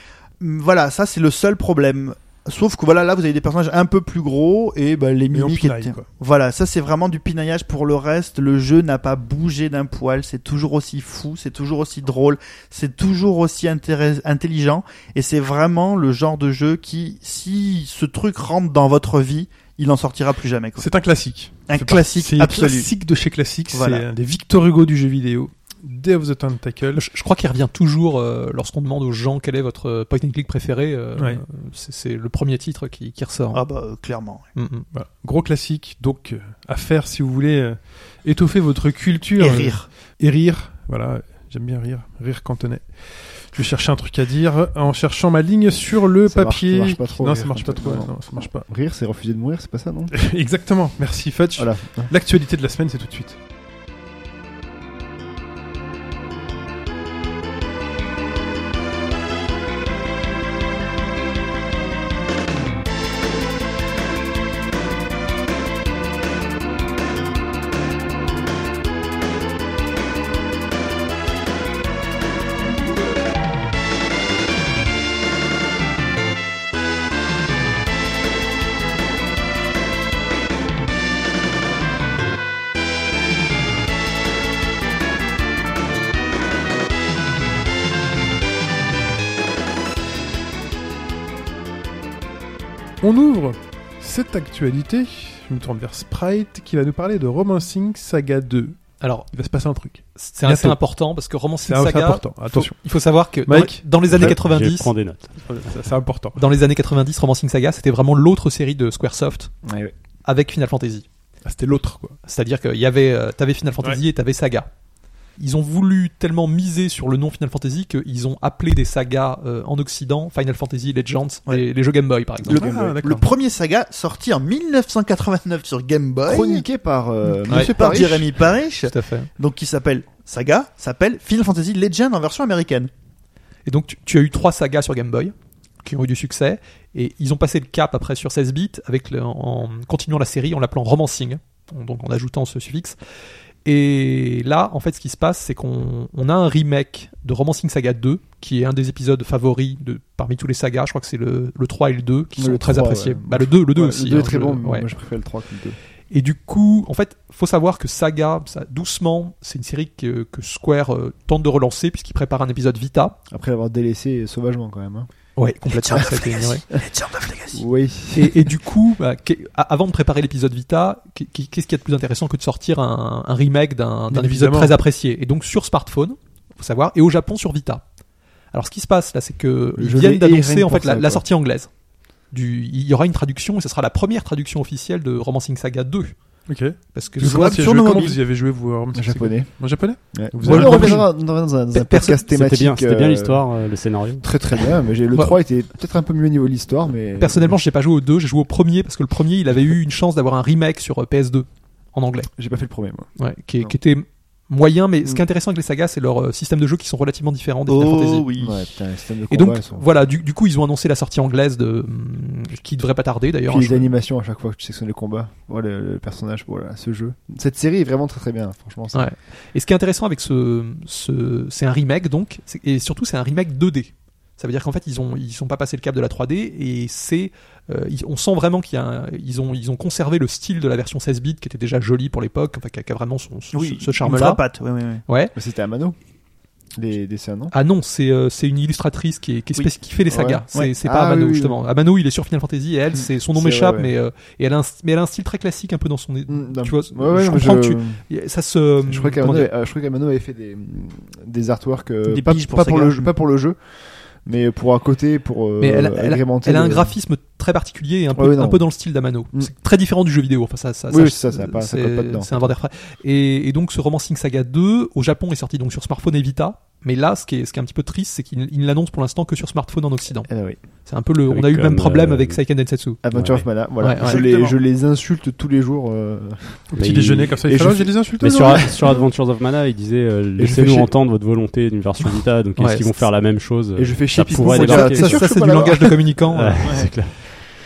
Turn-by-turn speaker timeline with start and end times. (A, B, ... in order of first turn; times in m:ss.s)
0:00.4-0:20.9 A
0:05.3-0:06.1 B
0:20.8-0:27.0 B
0:21.7-0:22.9 A
0:23.7-0:24.0 A
0:26.9-0:33.6 C
0:31.2-0:31.4 B
0:33.5-0:34.4 A
0:34.6-0:34.9 C
0:34.9-0:48.6 B
0:39.4-0:39.9 A
0:46.2-0:50.1 D
0:50.1-0:53.4 B
0:51.6-0:52.1 D
1:33.0-1:38.8 B
1:39.0-1:39.3 C
1:39.3-1:40.8 B
1:40.2-1:44.9 C
1:41.6-1:42.8 B
1:43.4-1:44.4 B
1:44.1-1:45.4 E
1:45.4-1:46.4 B
1:46.4-1:49.5 C
1:49.6-1:49.9 D
1:50.2-1:51.0 C
1:51.4-1:52.2 B
1:52.2-1:54.7 C
1:55.4-2:02.8 C
2:02.5-2:03.3 B
2:02.5-2:06.6 A
2:06.2-2:08.3 D
2:07.5-2:08.0 C
2:07.5-2:12.9 A
2:08.9-2:09.3 C
2:13.6-2:23.0 C
2:23.6-2:34.9 C
2:32.4-2:35.8 D
2:36.1-2:43.2 C
2:43.3-2:45.1 D
2:45.4-2:46.6 C
2:45.9-2:47.6 A
2:47.5-2:48.4 D
2:48.1-2:57.8 C
2:54.1-2:54.8 B
2:58.5-3:01.7 C
2:59.8-3:01.2 D
3:02.3-3:06.2 C
3:06.5-3:11.1 B
3:06.9-3:07.5 C
3:07.2-3:08.2 A
3:08.9-3:13.4 D
3:10.4-3:11.1 C
3:11.7-3:12.2 C
3:12.3-3:14.2 E
3:14.2-3:17.6 D
3:17.2-3:22.3 C
3:22.4-3:23.7 D
3:23.2-3:28.3 C
3:27.7-3:28.6 A
3:28.4-3:29.8 D
3:29.3-3:33.9 C
3:33.5-3:39.1 D
3:38.9-3:54.4 C
3:53.5-3:55.0 A
3:55.1-3:55.3 C
3:55.3-3:56.0 D
3:56.8-3:57.5 D
3:57.5-4:09.5 C
4:00.1-4:01.6 D
4:03.3-4:04.0 D
4:06.3-4:08.0 D
4:08.8-4:13.6 D
4:12.0-4:13.1 A
4:14.2-4:16.9 D
4:15.6-4:30.3 C
4:18.1-4:18.7 D
4:20.9-4:22.5 D
4:30.3-4:30.6 D
4:30.8-4:33.0 C
4:31.3-4:32.4 E
4:33.0-4:36.7 D
4:33.1-4:33.5 E
4:33.8-4:34.2 C
4:34.0-4:34.6 A
4:36.7-4:38.8 B
4:36.8-4:37.4 E
4:37.4-4:39.0 D
4:38.2-4:47.2 E
4:40.4-4:40.9 D
4:42.6-4:43.0 C
4:43.8-4:46.2 D
4:44.3-4:46.8 C